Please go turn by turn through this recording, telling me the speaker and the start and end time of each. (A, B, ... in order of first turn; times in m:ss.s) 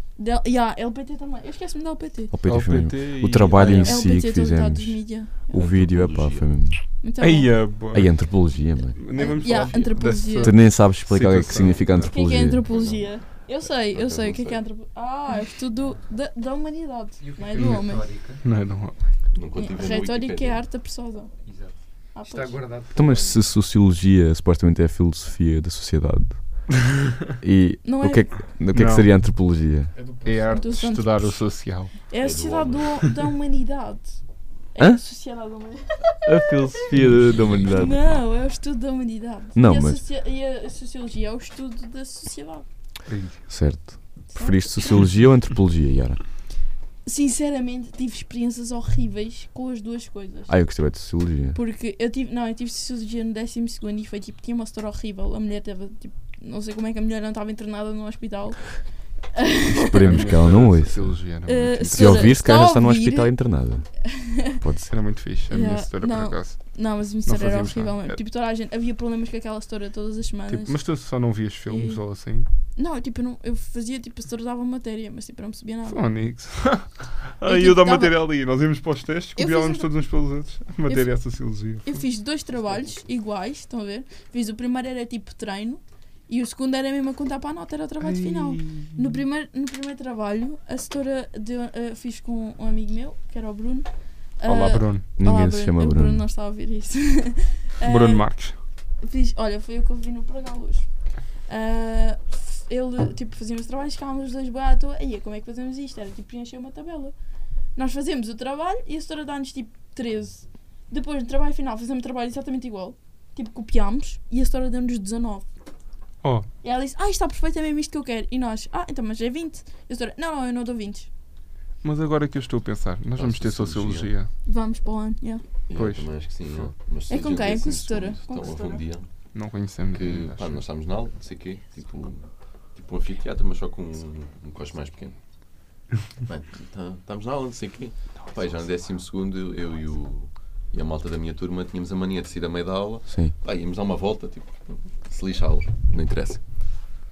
0:00.2-0:02.3 A
0:02.3-0:06.8 B
0:02.4-0:04.2 C
0:03.6-0:05.7 A
0:05.5-0:06.5 D
0:07.0-0:07.7 A
0:07.2-0:08.4 C
0:07.9-0:09.1 B
0:09.0-0:12.1 C
0:09.1-0:10.6 A
0:10.4-0:12.6 B
0:12.1-0:18.1 A
0:12.7-0:14.6 D
0:15.8-0:16.1 E
0:17.2-0:18.4 E
0:17.6-0:17.9 C
0:18.4-0:19.0 C
0:19.3-0:20.6 D
0:19.6-0:21.3 A
0:21.4-0:23.5 E
0:22.1-0:22.6 A
0:22.9-0:26.7 B
0:27.4-0:29.9 B
0:27.8-0:28.3 A
0:28.7-0:29.2 C
0:29.9-0:30.8 E
0:30.2-0:32.0 C
0:30.5-0:36.6 A
0:32.2-0:33.0 D
0:36.2-0:38.2 B
0:37.2-0:37.7 D
0:37.7-0:42.6 A
0:39.5-0:40.0 B
0:43.1-0:43.5 C
0:43.5-0:46.2 B
0:44.3-0:45.0 A
0:47.0-0:50.5 A
0:50.5-0:51.6 B
0:51.5-1:00.5 A
0:59.8-1:01.3 B
1:00.0-1:02.4 C
1:01.5-1:03.4 A
1:01.9-1:04.9 B
1:04.0-1:04.6 A
1:04.9-1:08.2 C
1:05.5-1:11.0 A
1:10.5-1:12.5 C
1:11.7-1:12.0 A
1:12.7-1:16.0 A
1:15.9-1:22.0 C
1:17.4-1:18.2 A
1:19.4-1:19.9 A
1:20.8-1:40.9 A
1:22.5-1:23.1 E
1:28.0-1:29.2 C
1:34.4-1:35.0 C
1:35.2-1:36.2 B
1:37.8-1:38.6 C
1:41.4-1:47.1 A
1:47.8-1:55.5 A
1:56.2-1:56.5 C
1:56.6-2:01.1 A
2:01.8-2:04.3 C
2:03.2-2:04.1 D
2:04.4-2:05.4 A
2:05.7-2:15.2 D
2:05.7-2:06.1 C
2:07.1-2:08.8 A
2:09.3-2:10.6 C
2:16.2-2:27.0 D
2:23.1-2:23.3 B